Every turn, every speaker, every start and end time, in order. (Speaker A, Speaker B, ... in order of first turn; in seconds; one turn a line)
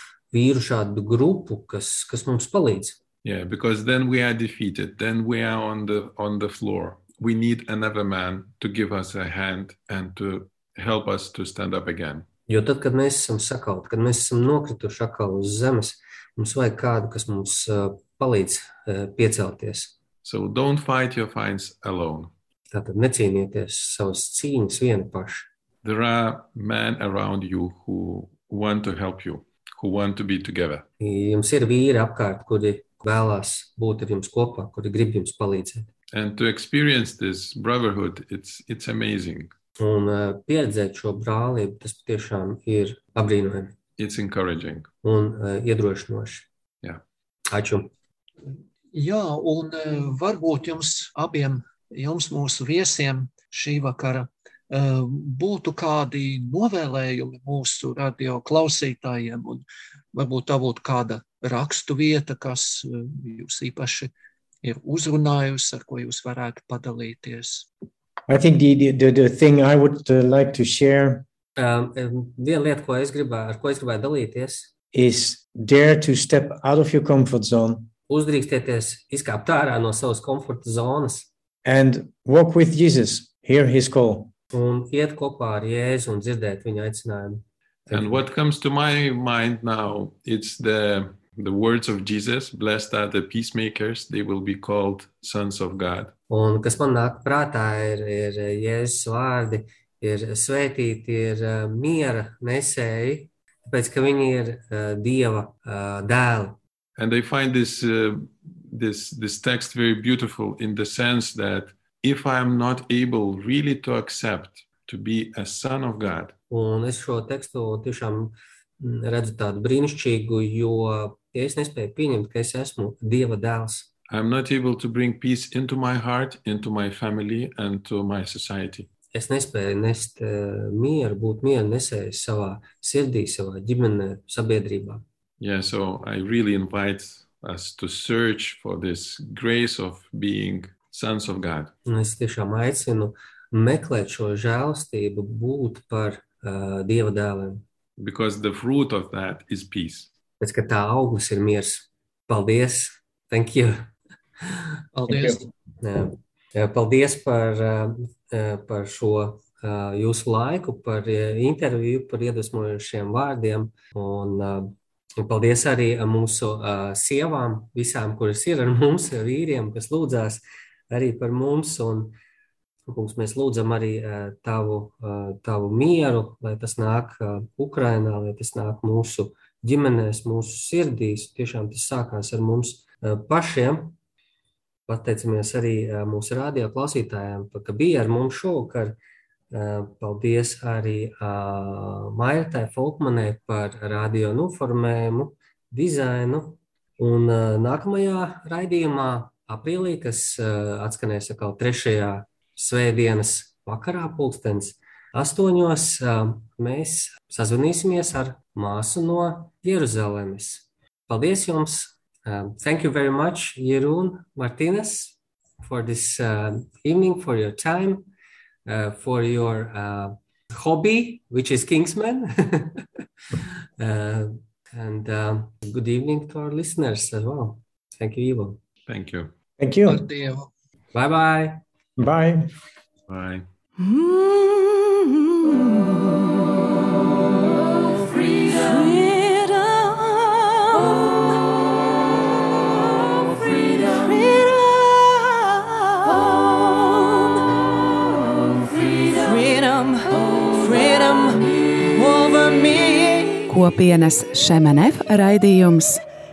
Speaker A: 0.3-3.0
Speaker B: 3.2-12.3
Speaker A: 12.5-19.9
Speaker B: 20.2-22.3
Speaker A: 22.7-25.5
Speaker B: 25.8-30.9
Speaker A: 31.0-35.9
Speaker B: 36.1-39.5
Speaker A: 39.8-43.8
Speaker B: 44.0-44.9
Speaker A: 45.0-46.5
Speaker A: 47.5-47.9
Speaker C: 48.9-59.6
Speaker C: 60.1-64.1
Speaker C: 64.6-67.7
Speaker D: 68.3-71.2
Speaker A: 71.6-74.7
Speaker D: 74.9-77.9
Speaker A: 78.1-81.3
Speaker D: 81.7-84.3
Speaker A: 84.5-88.2
Speaker B: 87.9-96.1
Speaker A: 96.3-106.6
Speaker B: 107.0-116.3
Speaker A: 116.5-123.9
Speaker B: 124.1-128.9
Speaker A: 129.1-135.0
Speaker B: 135.4-141.7
Speaker A: 141.9-147.6
Speaker B: 148.0-150.1
Speaker A: 150.4-153.9
Speaker C: 154.9-155.4
Speaker A: 155.8-172.2
Speaker A: 172.9-183.9
Speaker A: 184.9-189.0
Speaker A: 189.5-218.1
Speaker A: 218.7-222.8
Speaker A: 223.8-228.6
Speaker B: 228.9-229.3
Speaker D: 229.6-230.1
Speaker C: 229.9-230.5
Speaker A: 230.9-231.6
Speaker D: 232.0-232.5
Speaker B: 233.1-233.4
Speaker E: 233.8-235.8
Speaker E: 238.1-241.2
Speaker E: 243.1-247.5
Speaker E: 248.7-253.6
Speaker F: 253.5-256.0